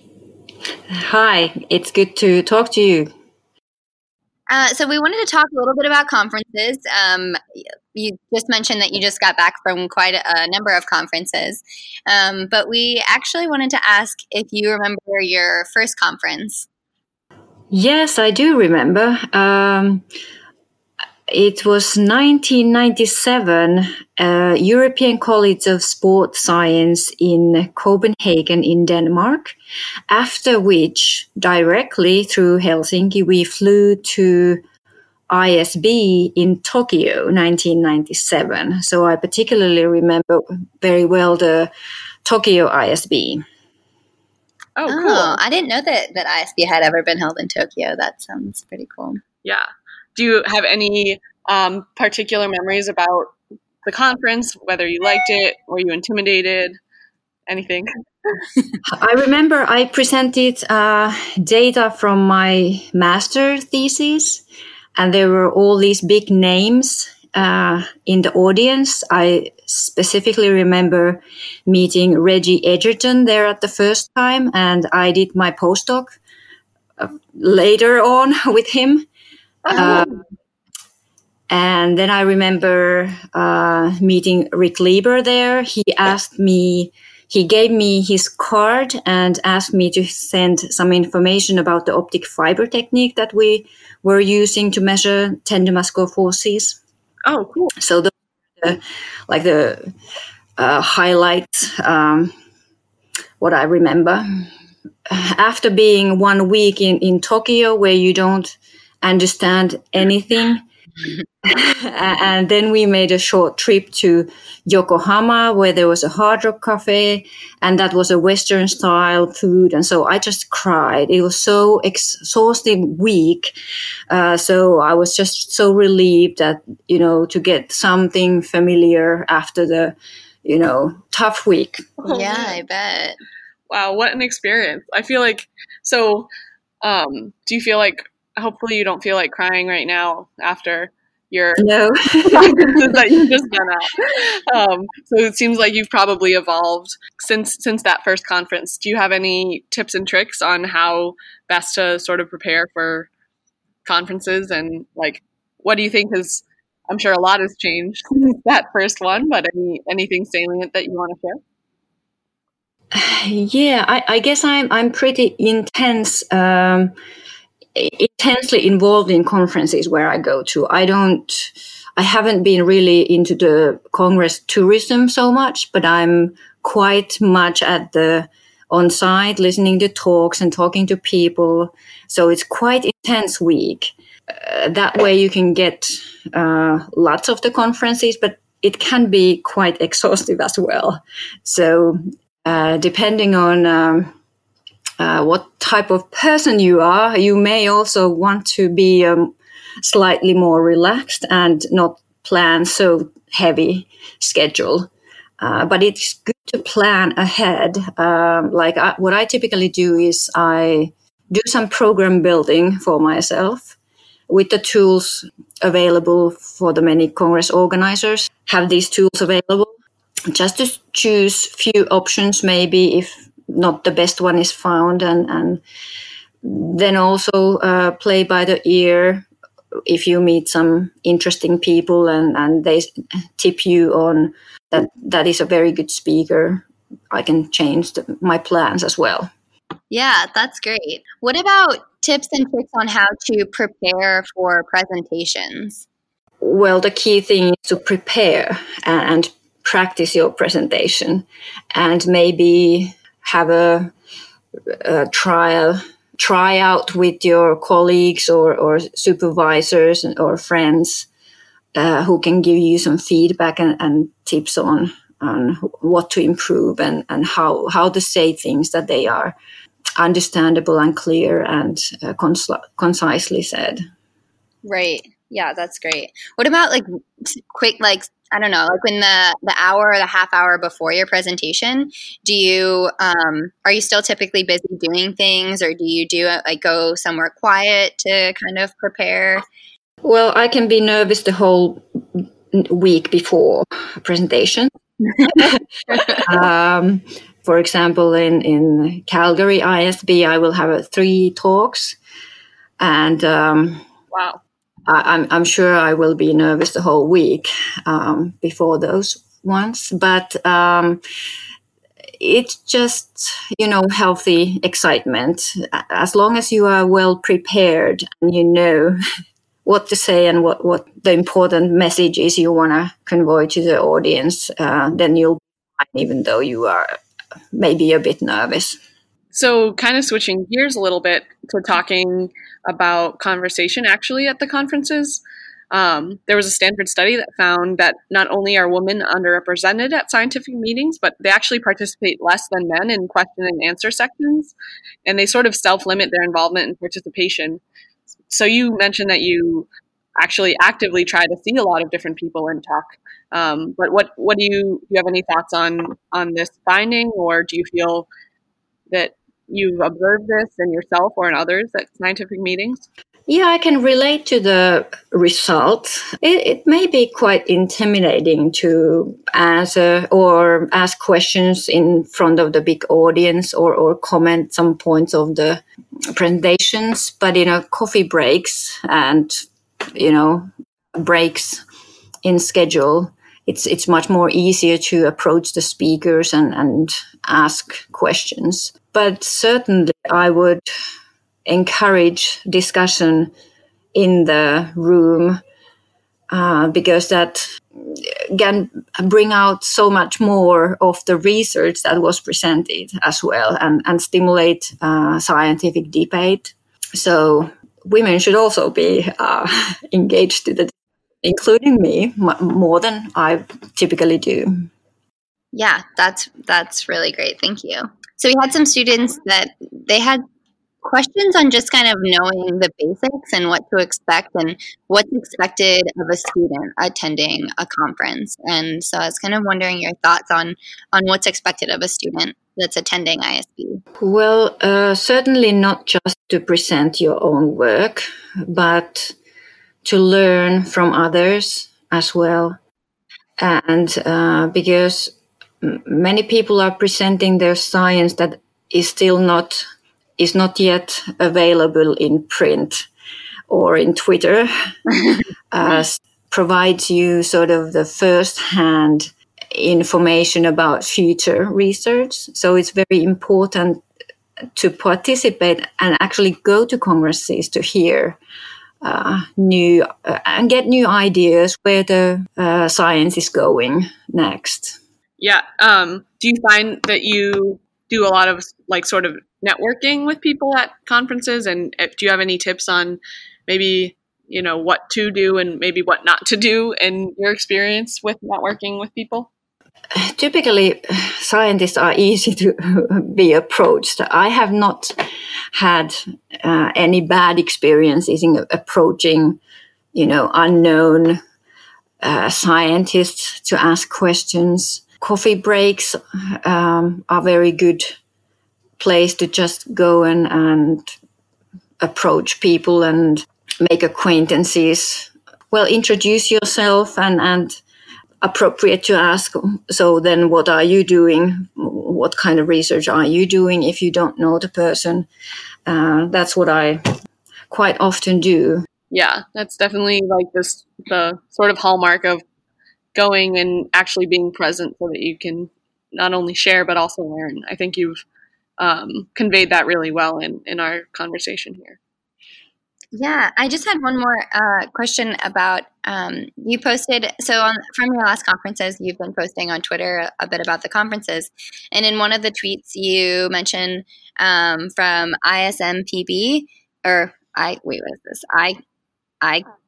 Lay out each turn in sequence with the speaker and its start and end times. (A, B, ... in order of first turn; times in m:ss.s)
0:00.9-0:03.1 A
0:04.5-0:07.4 B
0:07.9-0:16.7 B
0:17.7-0:20.1 A
0:21.3-0:29.6 A
0:30.1-0:34.6 A
0:35.3-0:41.7 A
0:42.2-0:43.4 A
0:44.8-0:45.4 C
0:44.9-0:49.2 B
0:49.4-0:53.3 C
0:53.8-0:56.8 C
0:57.5-0:58.4 C
0:58.9-1:04.4 A
1:05.0-1:16.2 A
1:17.0-1:19.1 A
1:19.7-1:20.0 B
1:19.7-1:20.2 A
1:21.5-1:36.8 A
1:37.2-1:37.7 C
1:37.8-1:39.9 A
1:40.6-1:42.4 A
1:43.4-1:44.5 A
1:45.1-1:50.6 A
1:51.4-2:03.6 A
2:04.1-2:11.9 A
2:12.0-2:12.6 C
2:12.0-2:13.2 B
2:13.7-2:16.3 C
2:16.8-2:21.6 C
2:21.6-2:23.2 A
2:22.3-2:33.1 C
2:33.8-2:41.4 C
2:42.9-2:47.0 A
2:47.8-3:14.1 A
3:15.0-3:33.8 A
3:34.3-3:39.7 A
3:40.3-3:45.6 A
3:46.4-3:49.3 A
3:49.9-3:59.3 A
3:59.9-4:05.8 B
4:06.4-4:13.9 A
4:14.7-4:21.1 A
4:21.8-4:29.4 A
4:30.0-4:33.8 A
4:34.6-4:49.4 B
4:50.0-5:02.0 A
5:02.8-5:03.8 A
5:04.1-5:04.4 C
5:04.9-5:11.0 A
5:12.2-5:19.0 A
5:19.6-5:27.0 A
5:27.5-5:28.8 A
5:29.3-5:44.5 C
5:45.0-5:47.6 C
5:48.3-5:58.1 C
5:58.9-6:02.8 C
6:03.3-6:15.6 A
6:16.1-6:21.6 A
6:22.2-6:30.7 A
6:31.5-6:33.3 A
6:34.0-6:35.4 A
6:36.3-6:54.7 A
6:55.5-7:00.2 B
7:00.8-7:13.8 B
7:14.0-7:19.2 A
7:19.8-7:22.6 A
7:23.4-7:29.6 A
7:30.2-7:32.9 A
7:33.5-7:34.7 A
7:35.5-7:43.8 A
7:44.6-7:48.2 A
7:48.8-7:54.8 A
7:55.2-8:09.3 C
8:10.0-8:15.0 A
8:15.5-8:19.4 A
8:19.9-8:21.2 A
8:22.0-8:28.0 A
8:28.8-8:30.9 A
8:31.8-8:37.6 A
8:38.2-8:45.1 A
8:45.7-8:46.9 A
8:47.5-8:48.7 A
8:48.9-8:52.2 C
8:53.0-8:58.0 C
8:58.6-9:01.8 C
9:03.0-9:18.6 B